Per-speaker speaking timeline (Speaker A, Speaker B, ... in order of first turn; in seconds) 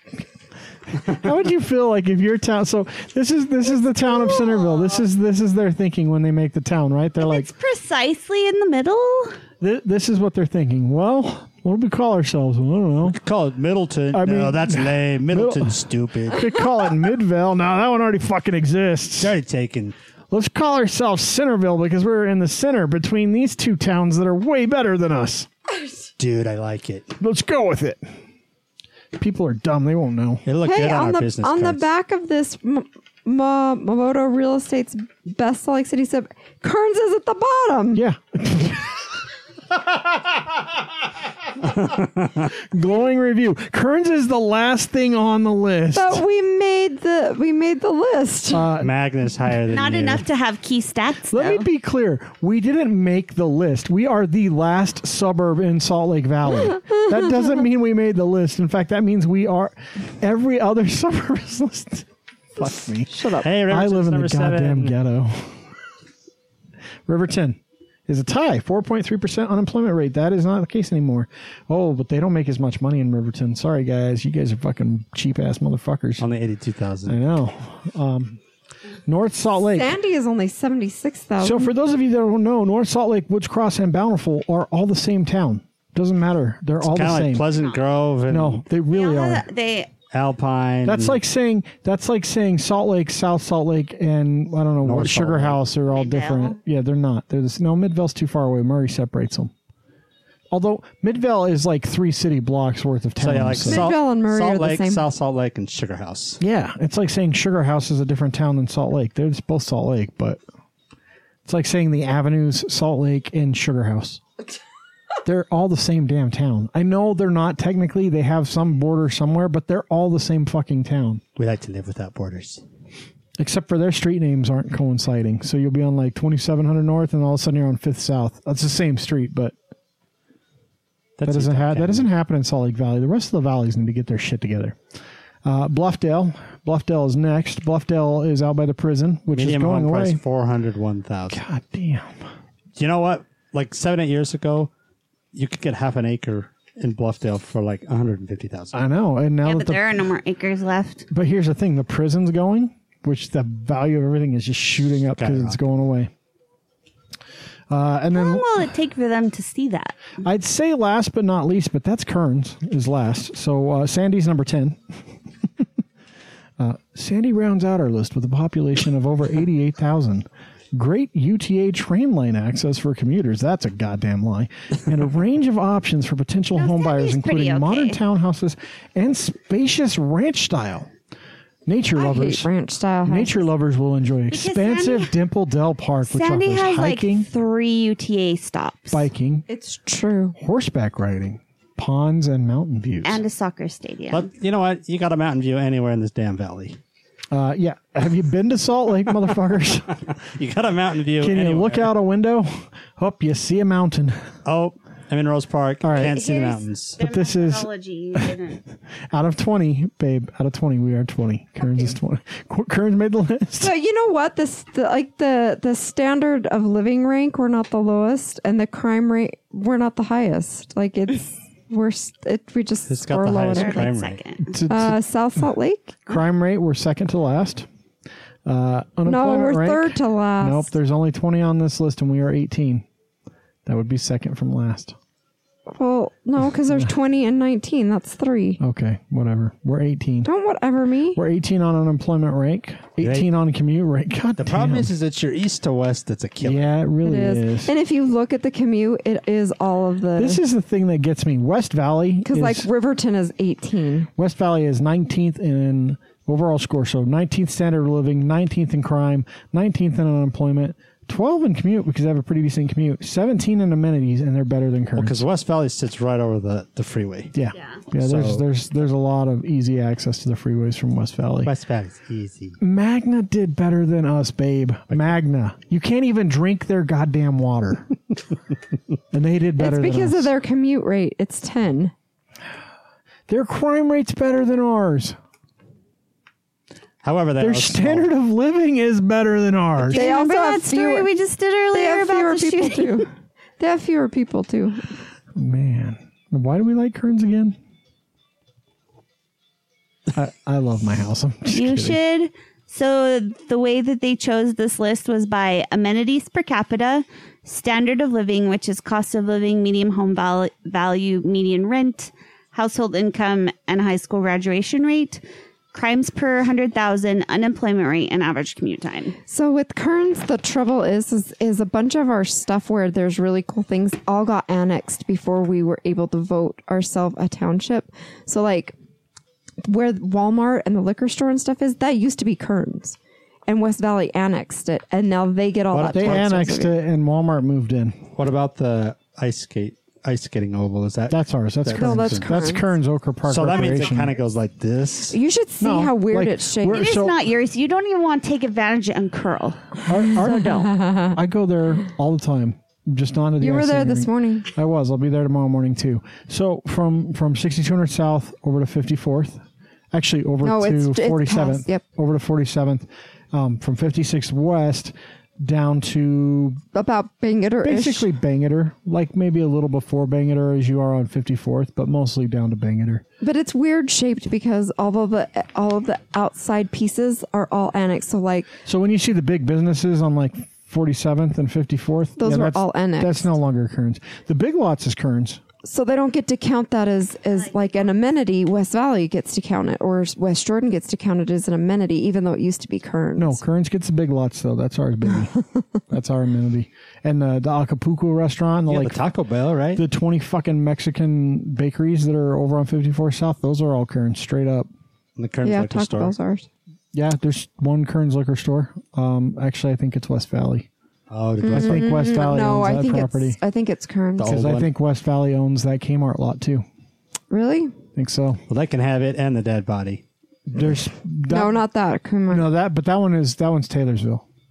Speaker A: 0.9-7.5, 9.6-13.2, 14.1-19.4, 20.3-25.5, 27.2-28.0, 29.2-30.4, 37.9-39.0, 39.7-40.4, 42.5-46.2, 48.5-48.9, 51.3-65.6, 67.1-76.3, 77.1-78.4, 79.1-80.0, 81.4-87.5, 88.3-89.5, 90.8-99.5, 100.5-103.9, 106.4-110.4, 111.5-114.2, 115.2-121.2, 123.4-129.6, 131.2-134.8, 135.4-140.2, 141.3-142.2, 148.7-149.8, 151.1-156.1, 157.7-158.6, 160.2-165.1, 166.6-180.9, 181.7-182.5, 183.1-187.3, 188.9-189.4, 190.4-193.2, 197.3-200.1, 201.2-204.3, 205.8-206.2, 207.0-208.4, 209.1-213.7, 224.5-225.0, 226.1-227.7, 228.5-232.8, 233.7-235.0, 238.6-240.3, 241.2-244.9, 246.4-247.7, 250.2-252.7, 254.2-265.2, 267.3-271.5, 272.6-277.9, 279.1-280.3, 283.3-285.2, 287.4-290.0, 295.4-297.6, 300.1-302.0, 335.9-338.1, 341.1-344.2, 345.6-347.2, 349.9-366.6, 367.6-373.0, 378.6-385.4, 393.2-399.0, 399.8-404.7, 406.9-410.7, 411.5-413.4, 414.3-416.6, 417.9-418.4, 420.5-421.6, 422.3-424.2
Speaker B: 4.4-4.9, 7.2-9.4, 49.7-51.7, 87.6-87.8, 88.9-89.9, 95.9-96.6, 149.4-151.1, 158.1-160.0, 176.6-178.0, 184.3-185.1, 186.1-189.1, 193.0-194.3, 205.9-208.6, 223.5-224.6, 267.6-267.8, 289.9-293.1, 301.5-319.2, 346.7-350.8
Speaker C: 13.1-16.6, 19.2-19.9, 26.2-27.1, 30.4-31.9, 41.9-42.4, 48.8-50.2, 63.4-64.9, 76.2-77.2, 86.8-88.6, 90.1-91.2, 94.8-95.6, 103.2-106.4, 121.4-122.6, 131.2-132.1, 139.3-141.4, 142.8-144.7, 145.3-148.8, 155.2-155.6, 194.1-196.8, 200.4-201.9, 204.4-207.0, 222.9-224.2, 243.0-243.3, 244.3-246.6, 265.0-267.3, 267.9-268.4, 271.4-272.6, 287.0-288.1, 335.7-336.6, 338.1-342.5, 343.3-345.2, 398.7-399.8, 405.2-406.1, 411.1-412.1, 414.2-414.7, 418.5-420.0
Speaker D: 30.6-38.0, 45.9-48.7, 63.1-63.5, 79.7-81.7, 103.7-105.0, 182.0-183.5, 189.5-190.4, 213.6-223.9, 224.7-226.0, 229.1-230.7, 235.7-238.6, 240.2-241.2, 247.0-250.4, 252.2-254.1, 279.6-281.9, 289.9-291.1, 291.7-294.9, 319.3-328.8, 329.6-336.8, 341.7-342.7, 345.1-346.9, 350.8-351.1, 353.4-354.5, 360.4-361.8, 366.7-368.1, 373.2-378.5, 382.2-383.3, 385.6-393.4, 405.4-406.5, 411.4-414.4, 417.3-417.7, 421.3-422.5